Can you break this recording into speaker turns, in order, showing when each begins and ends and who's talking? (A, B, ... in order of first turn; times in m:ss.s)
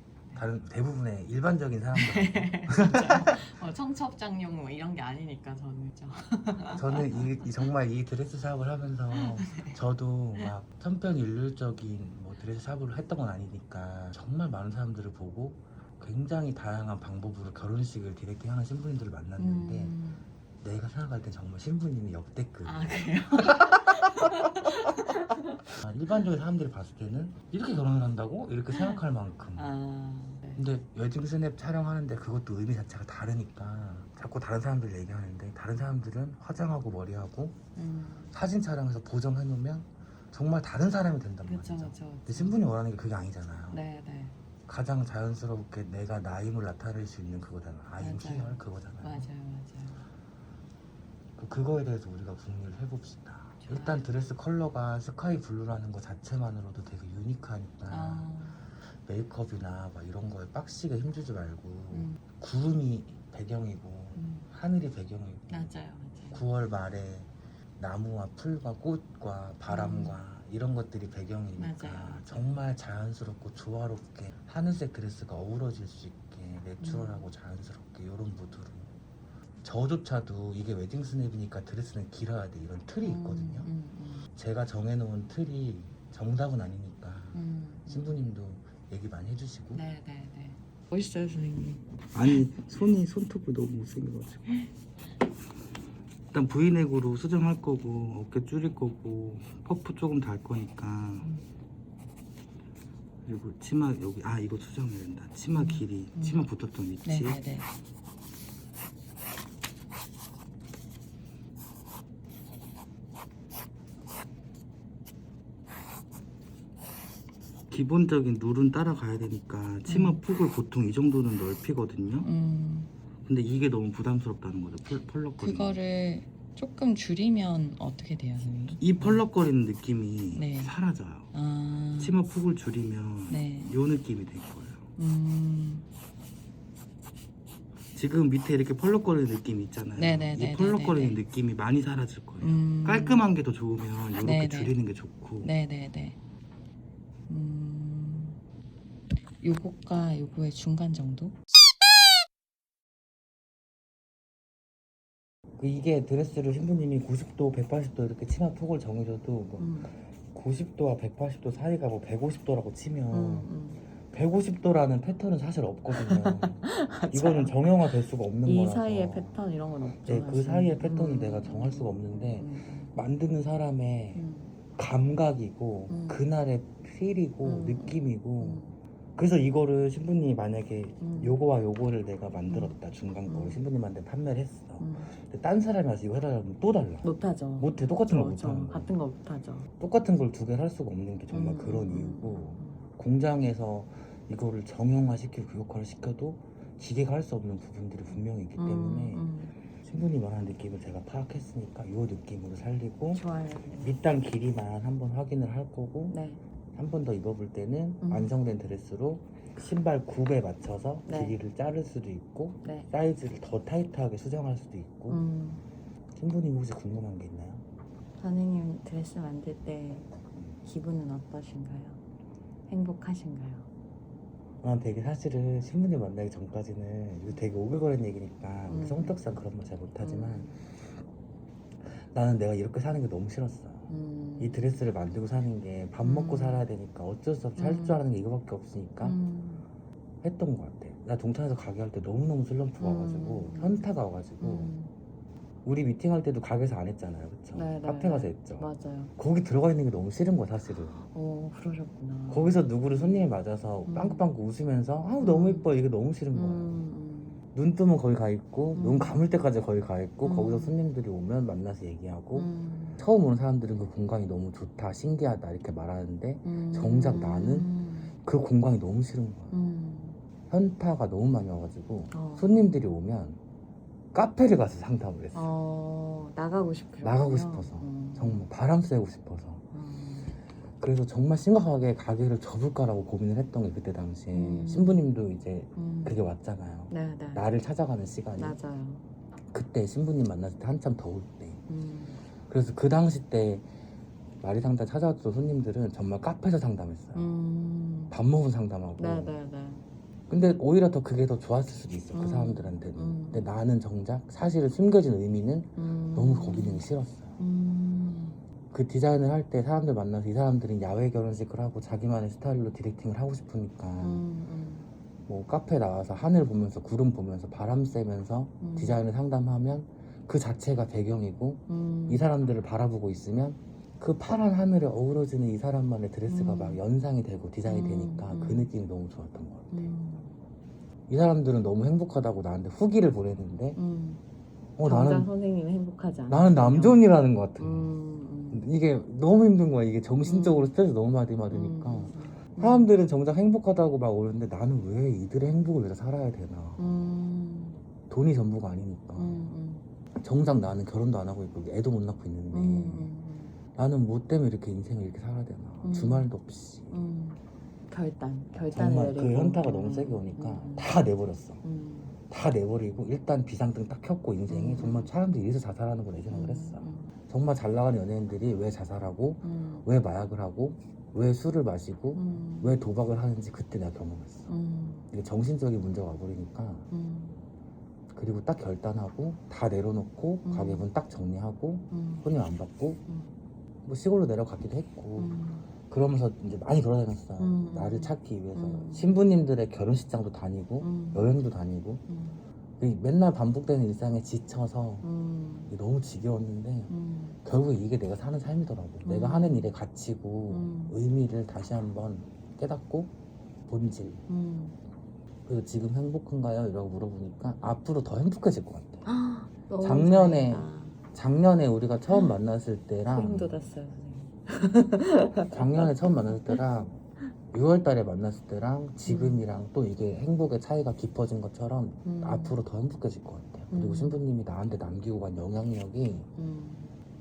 0:00.4-0:03.5 A
0:01.9-0:07.6 B
0:06.7-0:20.0 A
0:09.1-0:09.8 B
0:19.4-0:20.2 B
0:20.6-0:23.8 A
0:22.6-0:25.4 B
0:25.8-0:29.7 A
0:28.7-0:29.0 B
0:29.6-0:30.6 B
0:30.6-0:37.6 A
0:37.8-0:38.4 B
0:38.3-0:43.8 A
0:41.4-0:42.6 B
0:43.7-0:44.4 B
0:44.7-0:49.3 A
0:48.0-0:50.0 B
0:51.4-0:58.3 A
0:53.6-0:54.1 B
0:57.9-0:58.6 B
0:58.9-1:05.7 A
1:01.9-1:02.2 B
1:04.1-1:04.5 B
1:05.5-1:06.4 B
1:06.3-1:18.9 A
1:09.7-1:10.2 B
1:11.6-1:12.6 B
1:16.8-1:17.3 B
1:19.6-1:23.7 A
1:23.0-1:24.3 B
1:24.4-1:29.8 A
1:27.3-1:28.2 B
1:29.7-1:32.6 B
1:32.1-1:34.6 A
1:36.3-1:41.3 A
1:43.2-1:47.4 A
1:45.5-1:46.5 B
1:47.0-1:47.7 B
1:57.7-2:02.3 A
1:59.9-2:00.2 B
2:02.2-2:02.9 B
2:03.2-2:05.8 A
2:05.4-2:09.3 B
2:08.8-2:11.3 A
2:10.3-2:10.8 B
2:11.3-2:12.2 B
2:12.0-2:14.8 A
2:13.3-2:13.8 B
2:15.0-2:15.9 B
2:17.9-2:25.5 A
2:20.0-2:21.2 B
2:22.4-2:23.3 B
2:24.2-2:24.8 B
2:25.4-2:26.2 B
2:27.3-2:28.4 B
2:29.4-2:31.4 B
2:35.6-2:43.5 A
2:39.6-2:39.9 B
2:43.1-2:43.8 B
2:44.1-2:49.4 A
2:46.0-2:53.0 B
2:50.0-2:58.6 A
2:54.1-2:54.6 B
2:55.9-2:56.2 B
2:57.4-2:58.8 B
2:59.2-3:07.1 A
3:01.0-3:01.4 B
3:02.5-3:03.6 B
3:04.8-3:05.1 B
3:07.0-3:09.7 B
3:07.6-3:08.9 A
3:09.8-3:19.3 A
3:11.3-3:12.9 B
3:18.6-3:19.5 B
3:19.8-3:23.2 A
3:23.1-3:24.0 B
3:23.8-3:26.2 A
3:26.1-3:26.4 B
3:26.7-3:35.3 A
3:28.0-3:28.3 B
3:31.1-3:31.4 B
3:32.6-3:32.9 B
3:35.1-3:35.6 B
3:36.2-3:37.6 A
3:38.2-3:42.0 B
3:42.7-3:43.7 B
3:44.6-3:50.7 A
3:48.7-3:49.2 B
3:50.0-3:50.6 B
3:51.8-3:53.9 A
3:53.9-3:54.8 B
3:54.4-3:59.2 A
3:56.0-3:56.7 B
3:57.6-3:58.0 B
3:59.0-3:59.7 B
4:00.2-4:04.7 A
4:02.8-4:03.9 B
4:04.4-4:04.9 B
4:05.6-4:11.0 A
4:07.5-4:09.1 B
4:11.0-4:13.4 B
4:12.3-4:16.8 A
4:13.9-4:14.3 B
4:15.2-4:15.7 B
4:16.3-4:17.4 B
4:17.5-4:29.6 A
4:18.8-4:19.3 B
4:20.2-4:20.8 B
4:22.3-4:23.0 B
4:26.4-4:28.1 B
4:29.5-4:30.2 B
4:30.5-4:33.4 A
4:32.1-4:32.7 B
4:34.1-4:35.5 A
4:35.3-4:38.5 B
4:37.0-4:39.6 A
4:39.7-4:40.4 B
4:40.8-4:48.6 A
4:44.3-4:45.0 B
4:45.8-4:46.2 B
4:46.9-4:47.5 B
4:48.4-4:49.0 B
4:49.5-4:51.6 A
4:51.7-4:52.2 B
4:52.5-4:53.7 A
4:54.4-4:57.3 A
4:57.1-4:58.1 B
4:58.1-4:59.4 A
4:59.0-4:59.9 B
5:00.3-5:07.4 A
5:02.1-5:03.5 B
5:05.8-5:08.4 B
5:08.7-5:14.3 A
5:14.0-5:14.9 B
5:15.3-5:29.9 A
5:18.6-5:19.0 B
5:21.7-5:22.3 B
5:26.3-5:26.8 B
5:27.6-5:28.7 B
5:29.7-5:30.4 B
5:31.1-5:33.8 A
5:33.8-5:34.2 B
5:34.8-5:35.3 A
5:34.8-5:37.0 B
5:36.3-5:37.9 A
5:37.6-5:38.7 B
5:38.5-5:46.8 A
5:40.2-5:40.8 B
5:41.5-5:42.9 B
5:46.8-5:47.8 B
5:48.1-5:49.5 A
5:49.2-5:49.9 B
5:50.2-5:53.1 A
5:52.5-5:53.6 B
5:53.7-5:57.0 A
5:55.8-5:56.3 B
5:56.9-6:01.0 B
5:58.5-6:01.6 A
6:01.6-6:02.2 B
6:02.3-6:14.5 A
6:04.5-6:05.1 B
6:06.3-6:07.2 B
6:09.4-6:09.9 B
6:12.2-6:12.9 B
6:14.5-6:15.1 B
6:15.1-6:16.9 A
6:16.9-6:17.4 B
6:18.1-6:23.0 A
6:20.4-6:20.9 B
6:21.9-6:22.3 B
6:23.1-6:23.3 B
6:23.8-6:32.0 A
6:25.2-6:25.7 B
6:27.4-6:29.2 B
6:30.8-6:31.3 B
6:32.1-6:32.4 B
6:32.8-6:35.1 A
6:35.0-6:35.7 B
6:35.7-6:36.9 A
6:36.9-6:37.4 B
6:37.4-6:43.1 A
6:39.0-6:39.7 B
6:40.5-6:41.0 B
6:43.7-6:44.2 A
6:44.3-6:44.8 B
6:45.5-6:49.1 A
6:49.0-6:51.0 B
6:49.8-6:53.6 A
6:53.1-6:56.6 B
6:55.5-6:57.0 A
6:57.5-7:06.3 A
6:59.0-6:59.4 B
7:02.0-7:02.6 B
7:03.7-7:04.2 B
7:06.4-7:07.0 B